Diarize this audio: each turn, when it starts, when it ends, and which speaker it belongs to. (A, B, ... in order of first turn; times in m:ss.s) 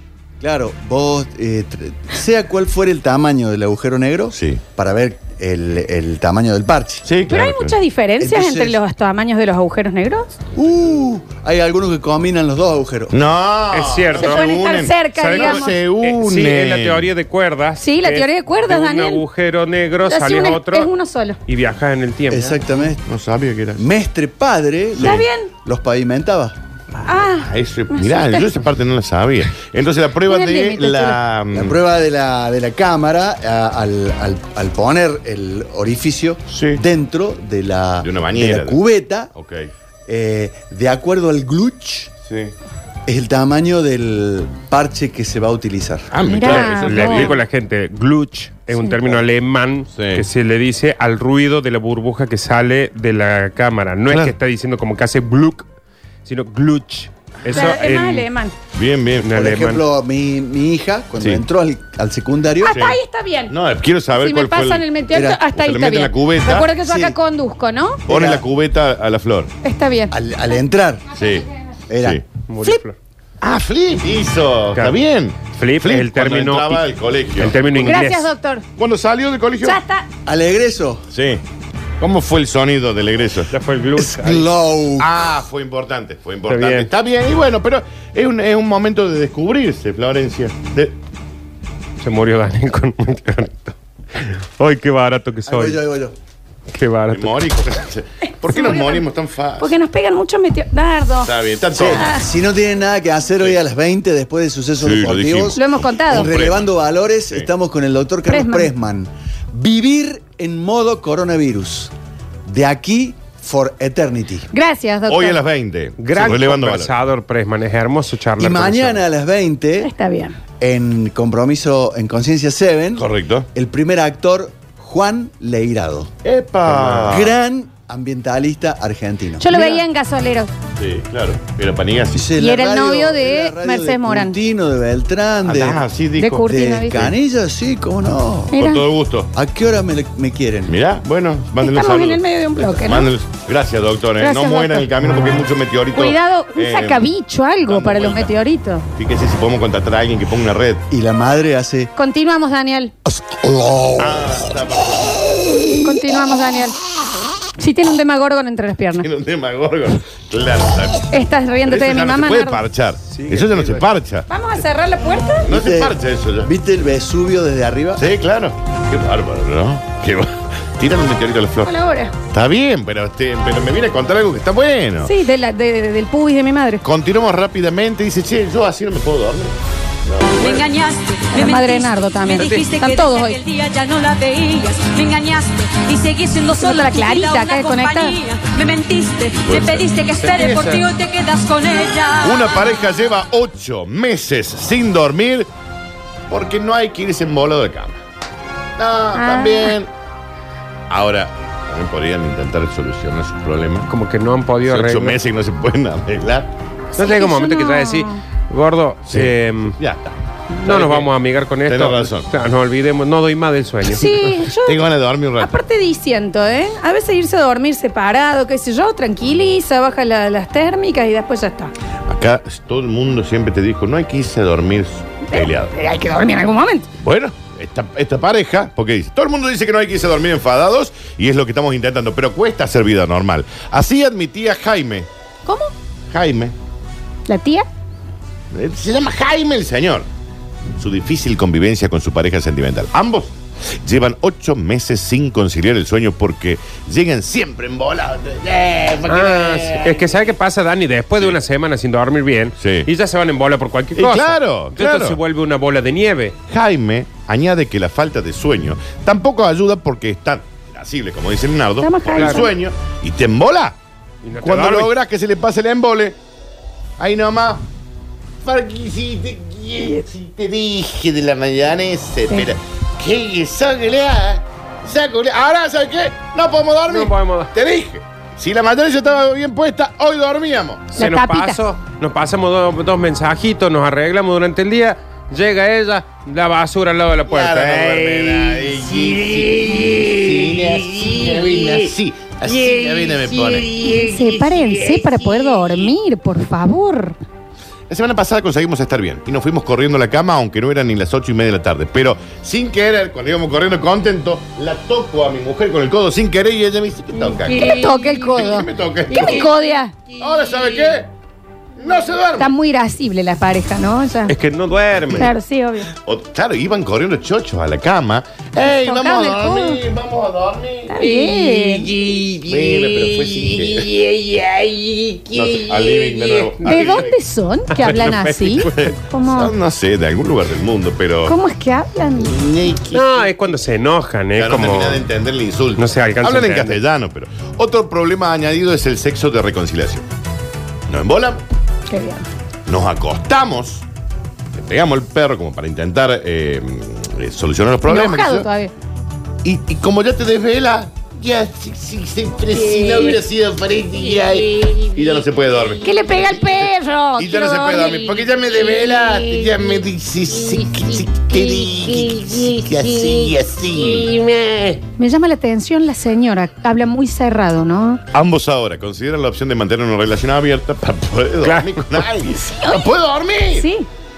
0:00.4-0:07.1 A
0:04.3-0:04.6 B
0:07.0-0:07.8 B
0:07.3-0:10.4 C
0:08.2-0:08.8 A
0:10.5-0:13.2 A
0:13.1-0:17.1 B
0:13.7-0:14.5 D
0:14.2-0:15.8 C
0:15.2-0:20.9 D
0:17.8-0:19.2 C
0:20.1-0:21.4 C
0:21.5-0:22.6 D
0:22.3-0:23.0 A
0:23.1-0:23.9 B
0:23.8-0:26.6 A
0:25.0-0:25.2 B
0:25.0-0:25.5 C
0:27.0-0:28.5 C
0:27.4-0:31.8 B
0:30.3-0:31.2 C
0:31.5-0:39.3 A
0:36.5-0:36.8 B
0:38.0-0:38.8 B
0:39.3-0:39.7 B
0:40.1-0:42.1 A
0:42.3-0:42.5 B
0:43.1-0:46.1 A
0:46.1-0:47.4 B
0:46.2-0:47.3 C
0:46.5-0:55.7 D
0:50.0-0:50.2 B
0:54.1-0:54.4 B
0:56.2-0:58.3 D
0:57.5-0:57.7 B
0:57.5-0:58.6 C
0:58.7-0:59.3 B
0:59.2-0:59.8 D
0:59.3-1:02.9 A
1:02.6-1:03.5 C
1:02.7-1:03.0 B
1:03.5-1:04.9 B
1:04.2-1:08.0 C
1:05.1-1:05.4 A
1:05.4-1:06.8 B
1:06.8-1:07.2 A
1:08.1-1:08.4 A
1:08.1-1:09.5 B
1:09.6-1:10.2 C
1:10.1-1:11.1 A
1:11.1-1:11.5 B
1:11.9-1:12.2 A
1:12.5-1:13.0 D
1:13.4-1:18.0 B
1:14.7-1:15.0 D
1:15.5-1:18.3 D
1:17.8-1:18.7 C
1:18.8-1:19.8 B
1:19.6-1:20.0 C
1:20.3-1:21.0 A
1:21.1-1:21.4 B
1:22.0-1:23.5 B
1:23.5-1:24.5 D
1:24.0-1:25.3 A
1:25.0-1:31.0 B
1:26.5-1:26.9 D
1:32.0-1:35.8 D
1:35.5-1:36.2 A
1:36.7-1:37.4 D
1:37.1-1:39.7 B
1:38.5-1:39.0 C
1:39.6-1:42.2 C
1:41.2-1:42.1 B
1:41.7-1:51.9 A
1:44.8-1:46.6 B
1:45.6-1:46.3 C
1:48.3-1:48.7 C
1:52.4-1:54.5 A
1:54.5-1:55.4 C
1:55.1-1:56.9 B
1:56.0-1:59.0 D
1:58.4-1:59.9 A
1:59.8-2:00.4 C
2:00.6-2:06.1 A
2:03.0-2:03.5 B
2:06.2-2:07.4 B
2:06.7-2:09.8 A
2:09.4-2:10.5 C
2:10.8-2:12.3 B
2:12.1-2:15.9 A
2:12.4-2:14.4 C
2:15.4-2:16.5 B
2:16.2-2:17.1 C
2:16.4-2:18.6 A
2:18.5-2:18.8 C
2:18.6-2:19.3 B
2:19.3-2:20.8 A
2:20.7-2:27.1 B
2:21.6-2:23.1 C
2:24.2-2:24.9 C
2:26.0-2:28.8 C
2:27.6-2:28.3 B
2:29.0-2:30.8 B
2:30.9-2:31.9 A
2:32.0-2:32.9 C
2:33.1-2:34.4 A
2:34.0-2:35.2 B
2:35.8-2:36.8 C
2:37.6-2:39.1 C
2:39.0-2:44.3 B
2:41.1-2:42.6 C
2:43.1-2:43.9 D
2:44.3-2:45.5 C
2:45.5-2:46.5 B
2:45.5-2:48.1 A
2:48.0-2:51.8 B
2:51.6-2:52.1 C
2:52.3-2:55.1 B
2:55.0-2:56.8 C
2:56.8-3:00.7 B
3:00.4-3:12.7 E
3:01.3-3:03.4 C
3:06.5-3:08.2 C
3:09.4-3:09.9 B
3:10.2-3:10.8 D
3:12.2-3:15.5 B
3:16.3-3:18.0 B
3:18.8-3:19.9 B
3:19.2-3:19.8 C
3:20.9-3:23.9 B
3:23.9-3:25.2 D
3:24.6-3:26.5 B
3:26.9-3:28.2 C
3:27.0-3:29.8 D
3:29.1-3:31.1 B
3:30.6-3:34.3 D
3:31.7-3:32.3 B
3:33.8-3:41.7 C
3:34.6-3:35.5 B
3:42.1-3:45.7 B
3:45.3-3:46.9 C
3:47.0-3:55.1 B
3:55.4-3:55.7 C
3:56.1-3:56.6 B
3:57.3-3:57.7 C
3:58.5-4:00.1 B
4:00.8-4:10.2 B
4:09.1-4:16.4 D
4:12.6-4:12.9 B
4:14.0-4:15.2 B
4:16.5-4:23.8 B
4:21.8-4:22.5 C
4:22.2-4:22.5 D
4:24.2-4:24.9 D
4:24.4-4:26.2 B
4:27.0-4:27.6 B
4:28.4-4:40.9 B
4:36.9-4:37.5 D
4:40.9-4:48.8 D
4:41.0-4:41.6 C
4:47.3-4:55.9 B
4:53.8-4:57.2 C
4:57.9-5:09.6 B
5:07.5-5:09.9 C
5:10.2-5:11.1 B
5:11.8-5:12.5 B
5:12.4-5:14.4 C
5:14.3-5:15.3 D
5:15.0-5:15.3 B
5:15.2-5:15.9 C
5:16.0-5:27.1 B
5:18.7-5:19.8 C
5:20.9-5:21.9 C
5:26.6-5:27.1 D
5:26.6-5:29.5 C
5:27.7-5:29.0 D
5:27.9-5:31.4 B
5:31.2-5:32.4 C
5:32.2-5:33.3 B
5:32.9-5:35.1 D
5:34.4-5:40.1 B
5:35.8-5:36.8 D
5:40.9-5:41.4 B
5:41.9-5:42.2 C
5:42.7-5:43.8 B
5:44.5-5:48.5 B
5:47.8-5:48.7 C
5:49.4-6:04.8 B
5:55.8-5:58.1 C
6:05.0-6:08.0 C
6:08.1-6:13.7 B
6:11.4-6:12.1 D
6:12.3-6:12.9 C
6:13.5-6:13.9 C